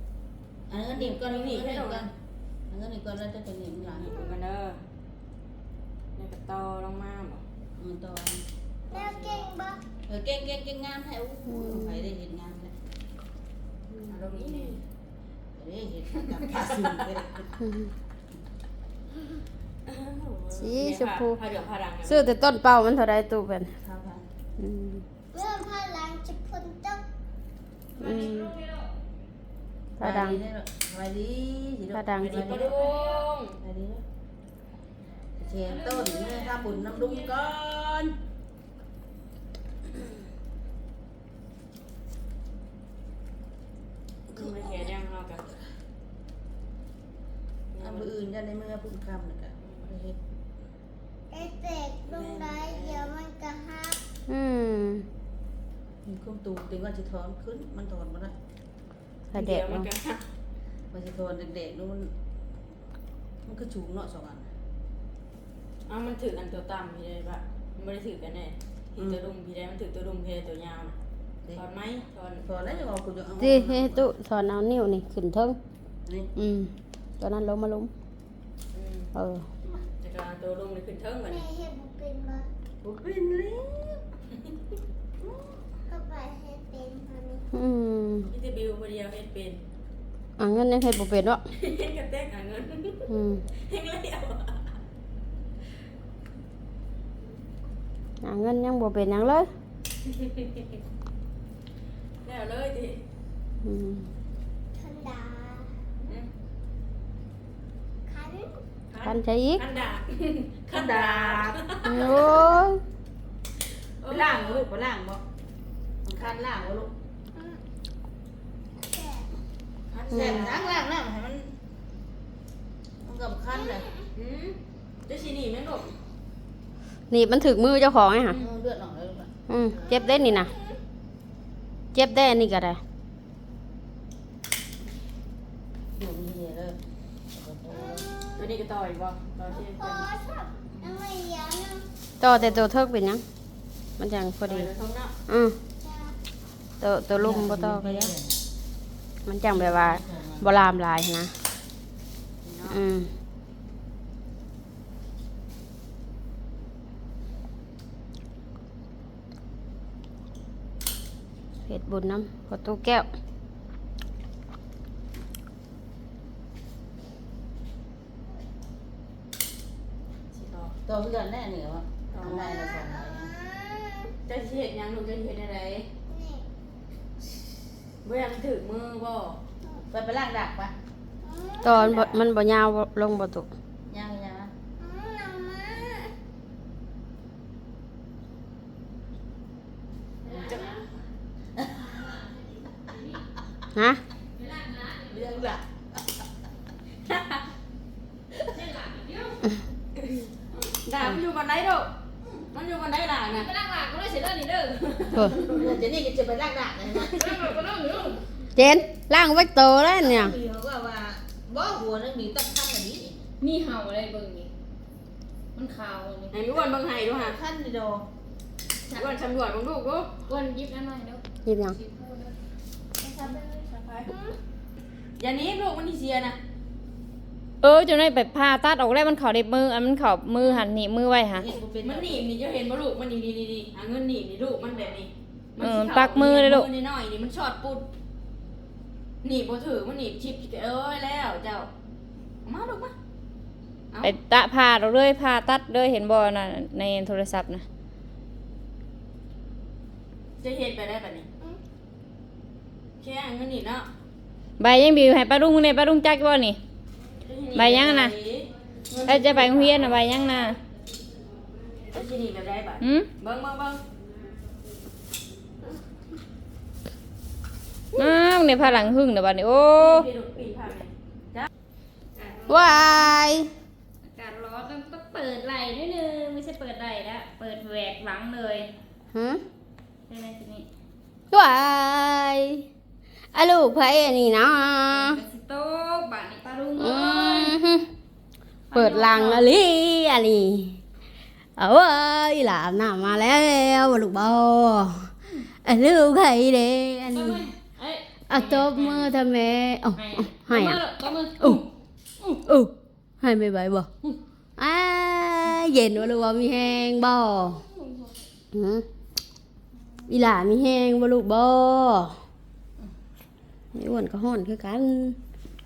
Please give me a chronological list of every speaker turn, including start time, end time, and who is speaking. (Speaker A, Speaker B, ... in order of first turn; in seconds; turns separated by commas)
Speaker A: 0.7-2.1, Speaker B: 0.9-2.1, Speaker A: 2.7-4.2, Speaker B: 3.9-4.8, Speaker B: 6.2-7.4, Speaker A: 7.8-8.4, Speaker B: 8.9-9.5, Speaker C: 8.9-9.8, Speaker A: 10.1-12.7, Speaker D: 11.5-12.1, Speaker B: 14.1-14.8, Speaker A: 15.6-17.5, Speaker B: 16.5-17.1, Speaker D: 17.6-17.9, Speaker B: 19.9-22.3, Speaker D: 20.6-21.4, Speaker D: 22.1-23.7, Speaker A: 23.8-24.2, Speaker D: 24.6-25.0, Speaker C: 25.3-27.0, Speaker E: 28.0-28.9, Speaker D: 28.0-28.5, Speaker D: 30.0-30.4, Speaker A: 30.0-32.8, Speaker D: 31.9-32.5, Speaker B: 32.2-33.6, Speaker E: 32.5-33.3, Speaker A: 33.6-34.0, Speaker A: 35.4-38.1, Speaker E: 35.6-37.5, Speaker B: 44.3-45.5, Speaker B: 47.7-48.1, Speaker A: 47.8-50.2, Speaker B: 49.6-49.9, Speaker C: 51.3-54.0, Speaker B: 52.0-53.1, Speaker D: 54.3-55.1, Speaker A: 56.0-58.4, Speaker D: 59.3-59.9, Speaker B: 59.4-60.2, Speaker A: 60.9-62.1, Speaker A: 63.5-64.5, Speaker B: 65.9-71.0, Speaker B: 71.5-72.9, Speaker A: 72.4-74.1, Speaker D: 73.4-75.6, Speaker A: 76.1-76.3, Speaker D: 76.4-77.9, Speaker B: 78.7-79.1, Speaker D: 79.1-79.5, Speaker B: 79.7-81.5, Speaker C: 81.3-82.5, Speaker A: 82.8-84.0, Speaker C: 85.9-87.5, Speaker D: 87.5-88.3, Speaker B: 88.3-89.6, Speaker D: 90.4-91.4, Speaker B: 91.5-93.1, Speaker D: 93.1-93.4, Speaker B: 93.6-94.7, Speaker D: 98.2-99.5, Speaker B: 100.1-100.6, Speaker B: 102.2-103.0, Speaker D: 103.6-104.1, Speaker C: 104.8-105.7, Speaker C: 108.1-108.5, Speaker B: 108.9-112.4, Speaker D: 109.0-109.6, Speaker A: 110.7-112.0, Speaker D: 111.8-112.8, Speaker B: 114.0-114.7, Speaker A: 114.1-115.2, Speaker A: 116.0-116.9, Speaker C: 118.9-119.3, Speaker B: 119.9-120.7, Speaker A: 120.1-121.5, Speaker D: 120.2-120.5, Speaker A: 123.0-123.9, Speaker B: 124.2-125.9, Speaker D: 127.1-128.4, Speaker A: 128.3-129.3, Speaker D: 129.5-130.5, Speaker D: 131.9-132.8, Speaker A: 135.9-136.8, Speaker A: 137.3-138.2, Speaker C: 138.0-138.4, Speaker B: 138.3-140.1, Speaker C: 139.7-141.9, Speaker D: 142.2-143.2, Speaker D: 144.0-144.7, Speaker B: 144.5-145.2, Speaker D: 145.3-145.6, Speaker C: 145.8-146.2, Speaker D: 146.8-148.2, Speaker A: 147.2-148.4, Speaker D: 149.2-151.3, Speaker A: 149.7-150.4, Speaker B: 152.4-152.8, Speaker D: 152.7-153.1, Speaker D: 161.7-163.1, Speaker B: 170.3-170.8, Speaker A: 170.8-173.3, Speaker B: 172.1-172.5, Speaker C: 173.4-174.1, Speaker B: 174.3-175.9, Speaker C: 176.1-176.5, Speaker B: 178.0-179.4, Speaker A: 179.9-180.8, Speaker C: 181.2-181.8, Speaker D: 181.6-183.5, Speaker A: 183.9-184.5, Speaker C: 184.8-186.1, Speaker E: 190.2-190.8, Speaker B: 190.4-190.7, Speaker D: 193.7-194.0, Speaker E: 194.4-195.2, Speaker A: 195.1-195.6, Speaker E: 198.4-199.6, Speaker B: 200.0-201.9, Speaker B: 202.5-203.5, Speaker E: 203.3-205.2, Speaker B: 204.9-205.5, Speaker A: 205.2-207.5, Speaker E: 207.0-208.2, Speaker D: 208.6-210.4, Speaker A: 210.0-213.2, Speaker E: 213.4-214.5, Speaker E: 215.6-216.4, Speaker B: 216.3-217.4, Speaker A: 217.1-218.1, Speaker B: 218.9-220.1, Speaker E: 220.3-221.2, Speaker D: 221.4-221.8, Speaker E: 221.8-222.3, Speaker B: 223.0-224.2, Speaker B: 225.2-226.4, Speaker E: 227.6-231.5, Speaker A: 231.4-232.3, Speaker B: 231.8-237.9, Speaker E: 235.6-236.7, Speaker B: 239.2-241.7, Speaker B: 242.4-242.9, Speaker E: 244.0-247.7, Speaker B: 250.4-251.3, Speaker B: 253.0-253.9, Speaker E: 254.6-256.6, Speaker B: 257.2-260.0, Speaker E: 257.5-258.1, Speaker E: 259.1-260.6, Speaker B: 261.8-263.8, Speaker E: 262.8-263.1, Speaker E: 267.9-270.1, Speaker B: 269.8-271.5, Speaker D: 272.5-273.5, Speaker E: 272.5-273.1, Speaker E: 274.1-278.7, Speaker D: 279.1-279.4, Speaker E: 280.1-280.7, Speaker D: 281.3-282.6, Speaker D: 283.3-285.2, Speaker E: 284.9-287.6, Speaker D: 286.8-287.9, Speaker E: 288.7-289.5, Speaker D: 288.7-290.8, Speaker D: 291.6-295.1, Speaker D: 295.6-297.4, Speaker E: 297.1-299.1, Speaker D: 298.3-300.8, Speaker E: 300.0-301.6, Speaker D: 302.4-303.9, Speaker D: 304.6-307.6, Speaker E: 307.6-308.1, Speaker D: 308.5-308.9, Speaker D: 310.1-312.1, Speaker D: 313.7-315.2